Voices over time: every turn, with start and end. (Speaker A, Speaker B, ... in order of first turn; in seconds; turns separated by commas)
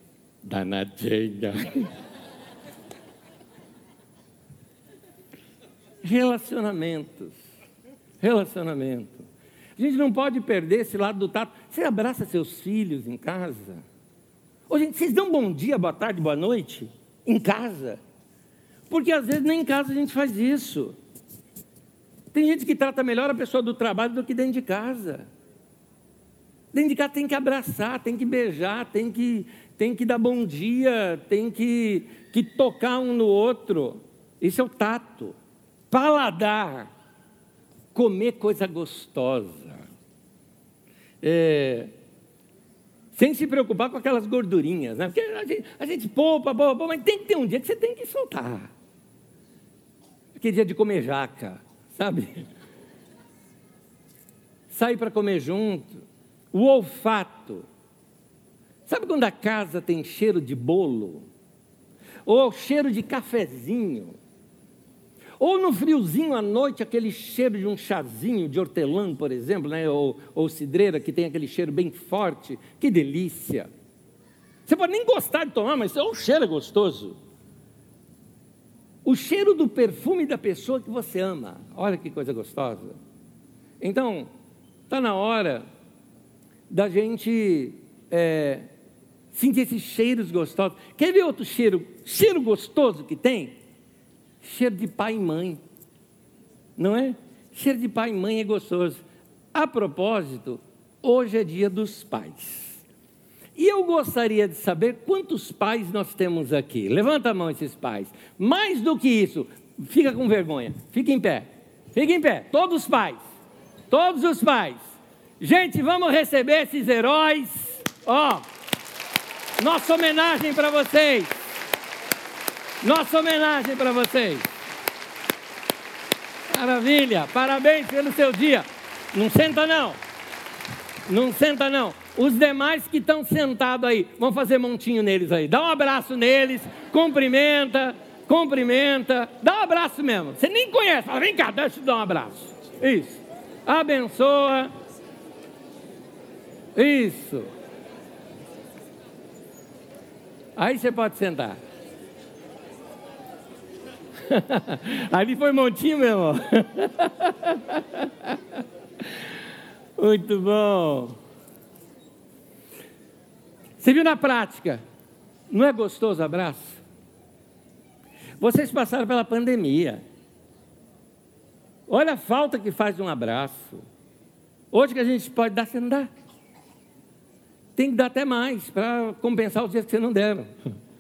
Speaker A: 0.4-1.9, Speaker A: 6.0-7.4, Speaker A: 8.2-13.8, Speaker A: 14.7-18.0, Speaker A: 18.9-20.9, Speaker A: 22.3-25.3, Speaker A: 26.7-35.4, Speaker A: 35.9-36.9, Speaker A: 37.9-39.9, Speaker A: 41.2-41.9, Speaker A: 43.1-48.7, Speaker A: 50.4-52.5, Speaker A: 54.7-57.6, Speaker A: 58.9-61.3, Speaker A: 62.2-64.2, Speaker A: 65.4-73.7, Speaker A: 74.7-77.2, Speaker A: 79.0-83.0, Speaker A: 83.8-84.3, Speaker A: 84.9-85.6, Speaker A: 86.7-88.7, Speaker A: 89.3-93.5, Speaker A: 94.4-95.6, Speaker A: 96.8-102.8, Speaker A: 103.6-113.2, Speaker A: 113.9-118.5, Speaker A: 119.6-121.3, Speaker A: 122.8-124.4, Speaker A: 126.5-130.0, Speaker A: 131.1-144.7, Speaker A: 146.8-147.5, Speaker A: 150.6-151.6, Speaker A: 154.3-158.4, Speaker A: 160.0-161.2, Speaker A: 163.8-164.8, Speaker A: 165.5-166.8, Speaker A: 168.4-170.0, Speaker A: 171.9-173.8, Speaker A: 174.7-176.1, Speaker A: 177.8-180.5